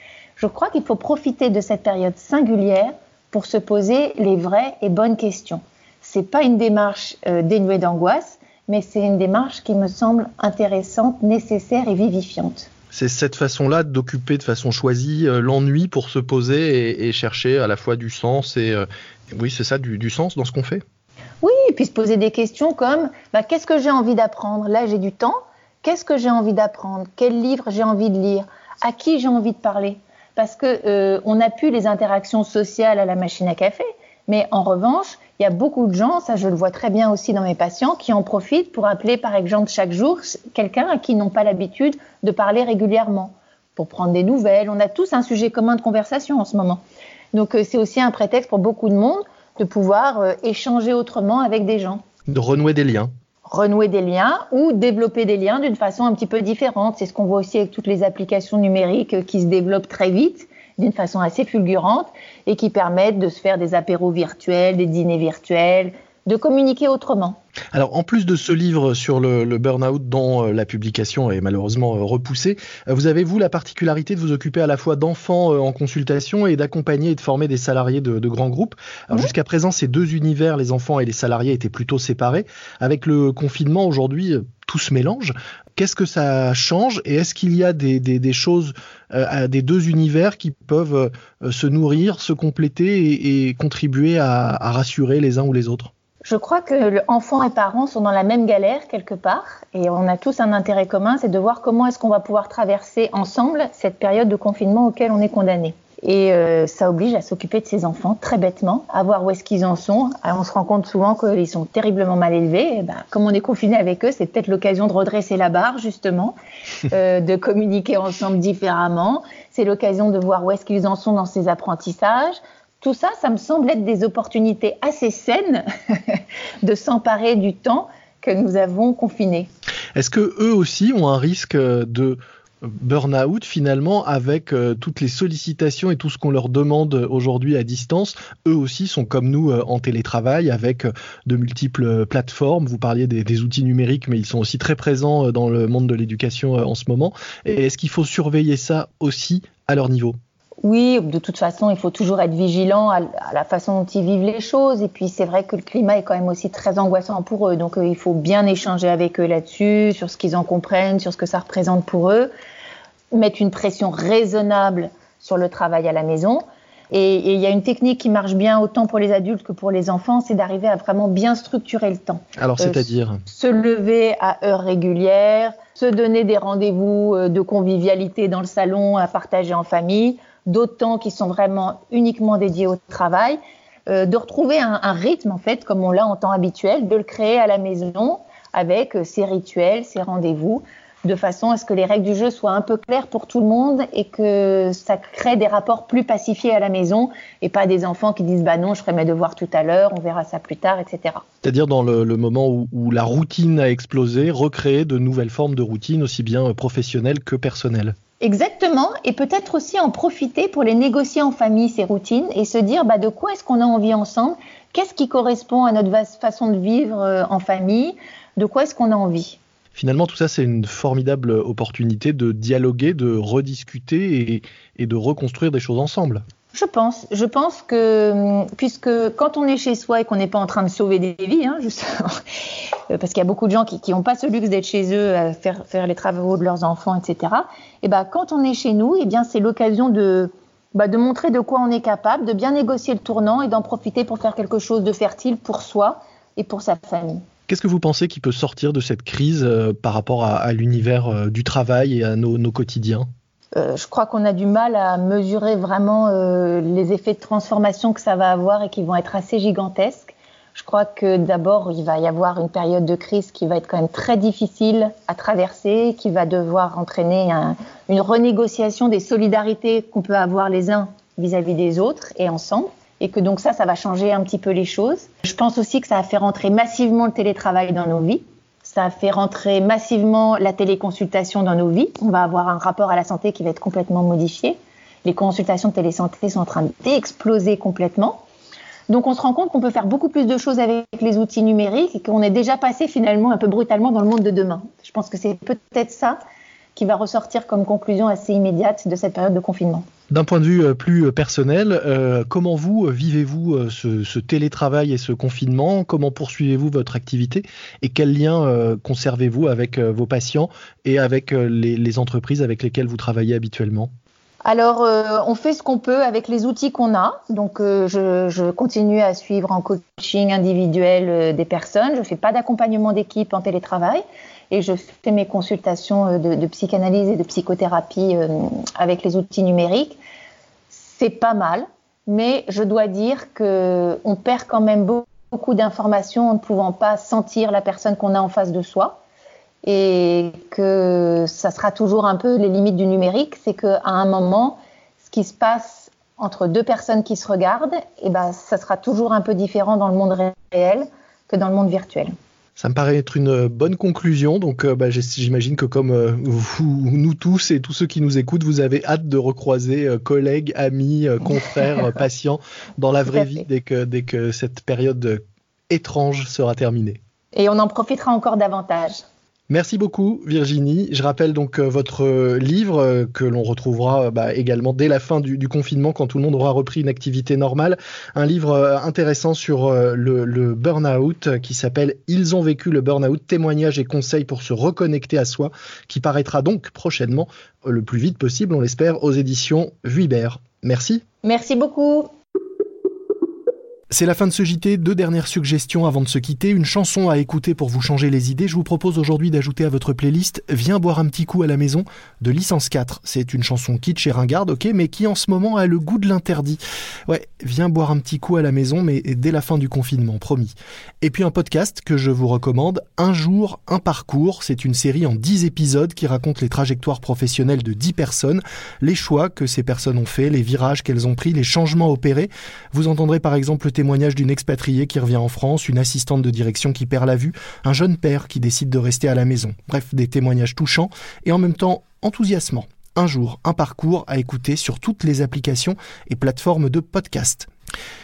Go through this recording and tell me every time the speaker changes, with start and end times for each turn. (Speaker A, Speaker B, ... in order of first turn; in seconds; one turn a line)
Speaker A: 0.4-12.7
Speaker B: 12.9-20.8
Speaker A: 21.4-46.8
Speaker A: 47.3-52.0
Speaker B: 52.3-53.1
Speaker A: 53.5-67.4
Speaker B: 67.7-95.9
Speaker A: 96.2-116.3
Speaker A: 116.9-129.5
Speaker B: 129.9-150.2
Speaker A: 150.6-162.3
Speaker A: 163.1-201.2
Speaker B: 172.4-173.2
Speaker B: 201.4-207.9
Speaker A: 208.2-219.4
Speaker B: 219.7-226.2
Speaker A: 226.5-232.2
Speaker A: 232.9-247.2
Speaker B: 247.5-253.1
Speaker A: 253.5-288.2
Speaker A: 288.9-296.2
Speaker A: 296.7-299.9
Speaker B: 300.1-313.9
Speaker A: 314.4-330.0
Speaker A: 330.7-339.0
Speaker A: 339.6-352.1
Speaker B: 352.6-367.0
Speaker A: 363.1-363.4
Speaker A: 367.3-369.0
Speaker B: 369.5-391.0
Speaker A: 391.2-392.1
Speaker B: 393.9-437.5